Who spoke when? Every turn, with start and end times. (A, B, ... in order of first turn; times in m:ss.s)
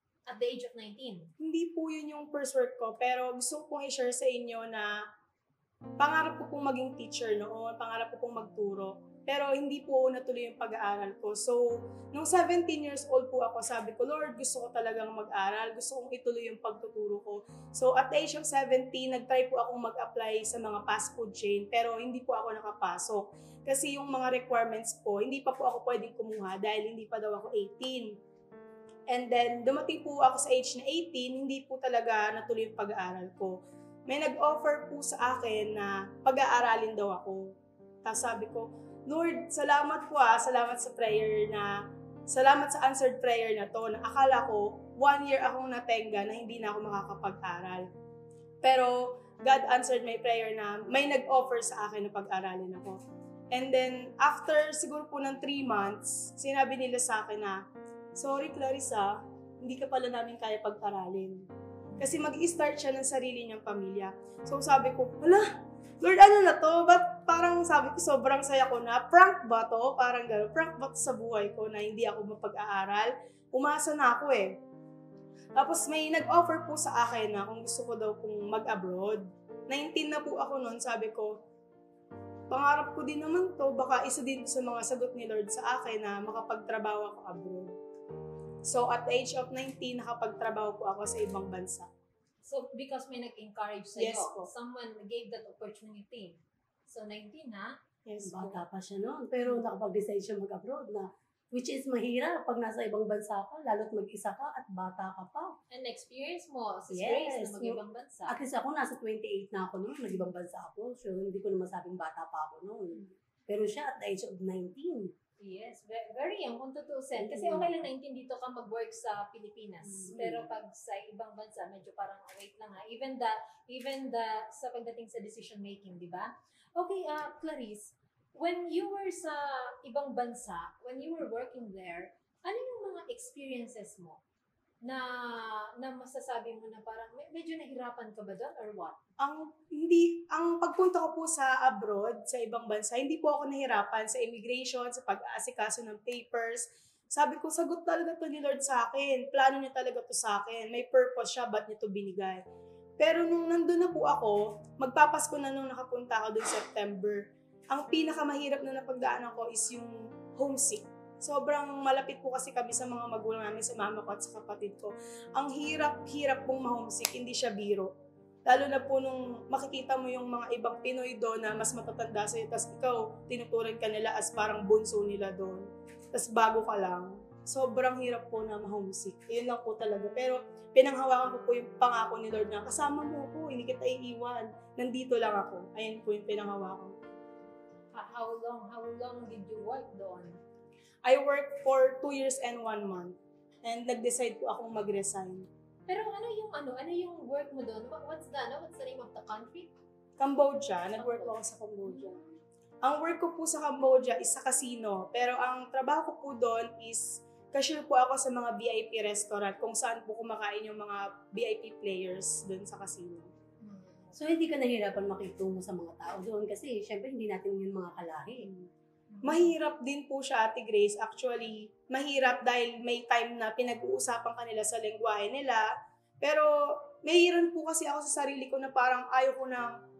0:00.3-0:01.3 A
0:01.4-0:04.9 B
0:06.0-0:11.6 B
0:12.1-0:28.1 B
0:29.1-0:37.5 B
0:38.0-0:41.7 B
0:42.3-0:47.9 B
0:48.6-0:53.0 B
0:53.5-0:57.6 B
0:58.2-1:01.4 B
1:02.0-1:05.4 B
1:06.0-1:14.5 B
1:15.6-1:21.3 B
1:22.5-1:27.7 B
1:28.6-1:31.9 B
1:32.4-1:37.7 A
1:34.0-1:34.5 B
1:38.0-1:38.6 B
1:38.2-1:45.5 C
1:45.7-1:48.3 A
1:46.9-1:55.1 C
1:55.4-2:14.2 A
1:57.2-1:57.7 C
2:00.1-2:00.4 C
2:14.8-2:19.0 A
2:19.2-2:32.4 B
2:33.0-2:47.9 B
2:48.4-3:06.9 B
3:07.9-3:10.4 A
3:11.0-3:15.5 B
3:15.9-3:19.7 A
3:20.2-3:22.2 B
3:21.0-3:21.3 A
3:21.9-3:22.2 A
3:22.8-3:33.3 B
3:33.6-3:34.2 A
3:34.1-3:38.5 C
3:39.1-3:39.5 A
3:39.2-3:45.6 B
3:46.2-3:49.7 B